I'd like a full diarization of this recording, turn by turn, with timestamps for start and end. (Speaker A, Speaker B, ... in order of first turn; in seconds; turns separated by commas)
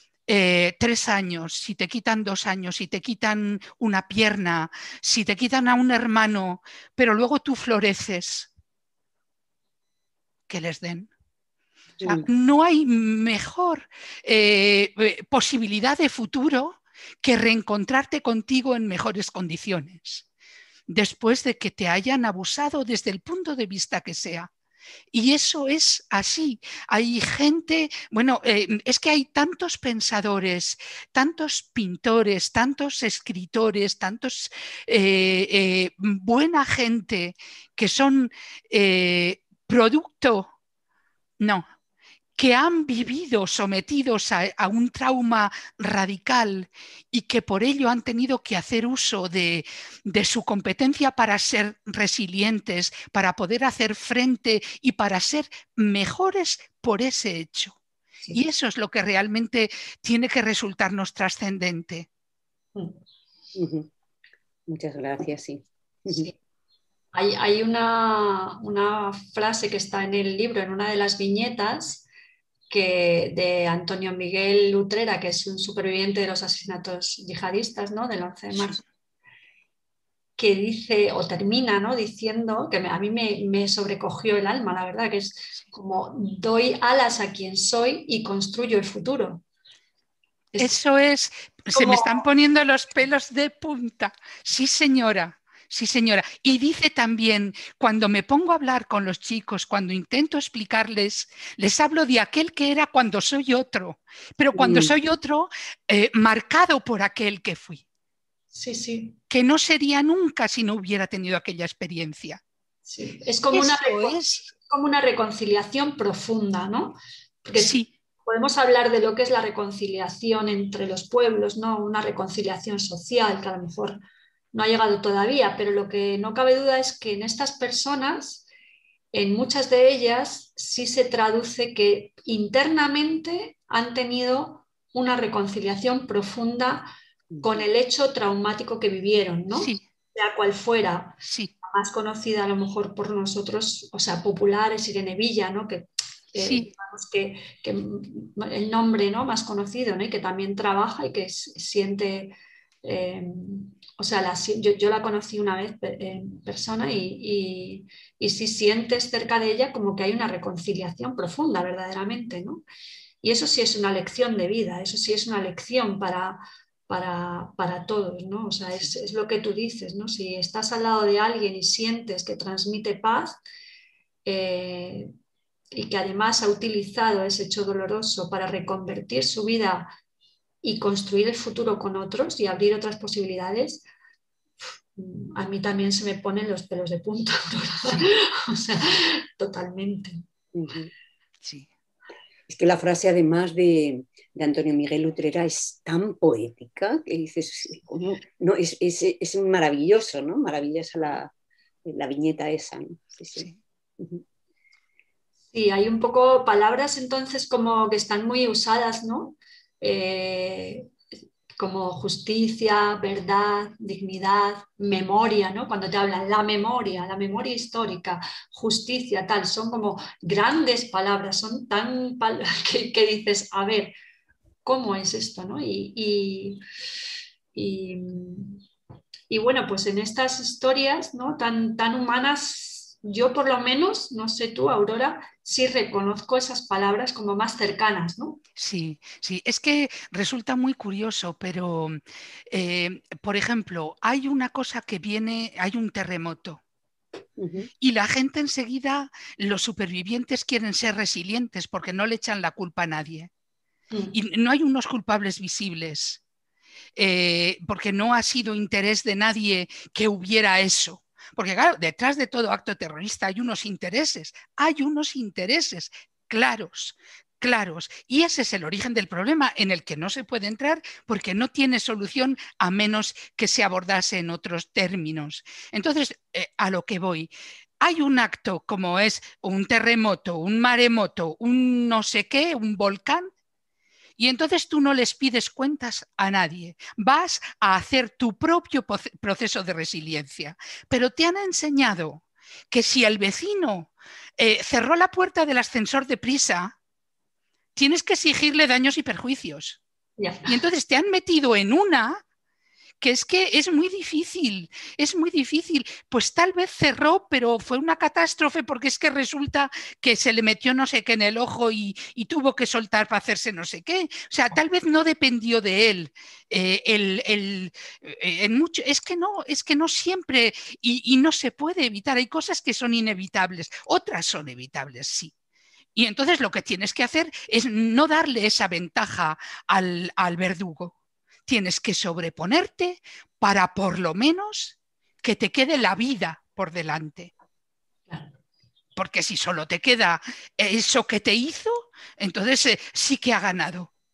Speaker A: 0.3-8.5, Speaker A: 10.5-11.1, Speaker B: 12.0-12.2, Speaker A: 12.0-20.2, Speaker A: 20.9-24.5, Speaker A: 25.1-40.5, Speaker A: 41.4-41.6, Speaker A: 42.4-57.8, Speaker A: 58.3-62.1, Speaker B: 63.5-63.9, Speaker B: 64.7-66.3, Speaker C: 66.1-66.3, Speaker C: 67.1-72.0, Speaker C: 72.7-78.8, Speaker C: 80.4-89.4, Speaker A: 90.5-107.8, Speaker C: 91.7-92.2, Speaker B: 104.5-104.9, Speaker C: 108.5-109.2, Speaker A: 109.3-112.4, Speaker C: 112.8-124.0, Speaker A: 113.5-114.5, Speaker A: 117.5-117.9, Speaker C: 124.5-128.4, Speaker C: 129.1-136.9, Speaker C: 137.4-162.6, Speaker A: 139.5-139.8, Speaker A: 141.2-141.5, Speaker A: 146.4-146.7, Speaker C: 163.2-173.4, Speaker C: 174.2-175.1, Speaker C: 175.7-179.9, Speaker C: 180.6-183.8, Speaker C: 184.9-190.2, Speaker B: 190.5-190.9, Speaker A: 191.4-191.7, Speaker B: 192.5-201.3, Speaker B: 201.8-204.2, Speaker C: 205.5-210.9, Speaker C: 211.6-223.9, Speaker C: 224.6-226.6, Speaker C: 227.5-228.6, Speaker C: 229.3-238.4, Speaker A: 238.6-246.6, Speaker B: 247.4-247.7, Speaker A: 247.8-253.3, Speaker A: 254.1-256.2, Speaker A: 257.0-283.3, Speaker A: 284.2-296.7, Speaker A: 297.8-299.8, Speaker C: 300.2-300.6, Speaker A: 300.4-302.2, Speaker A: 303.0-325.3, Speaker A: 325.9-330.9, Speaker A: 331.5-337.3, Speaker C: 338.1-338.3, Speaker A: 338.9-343.9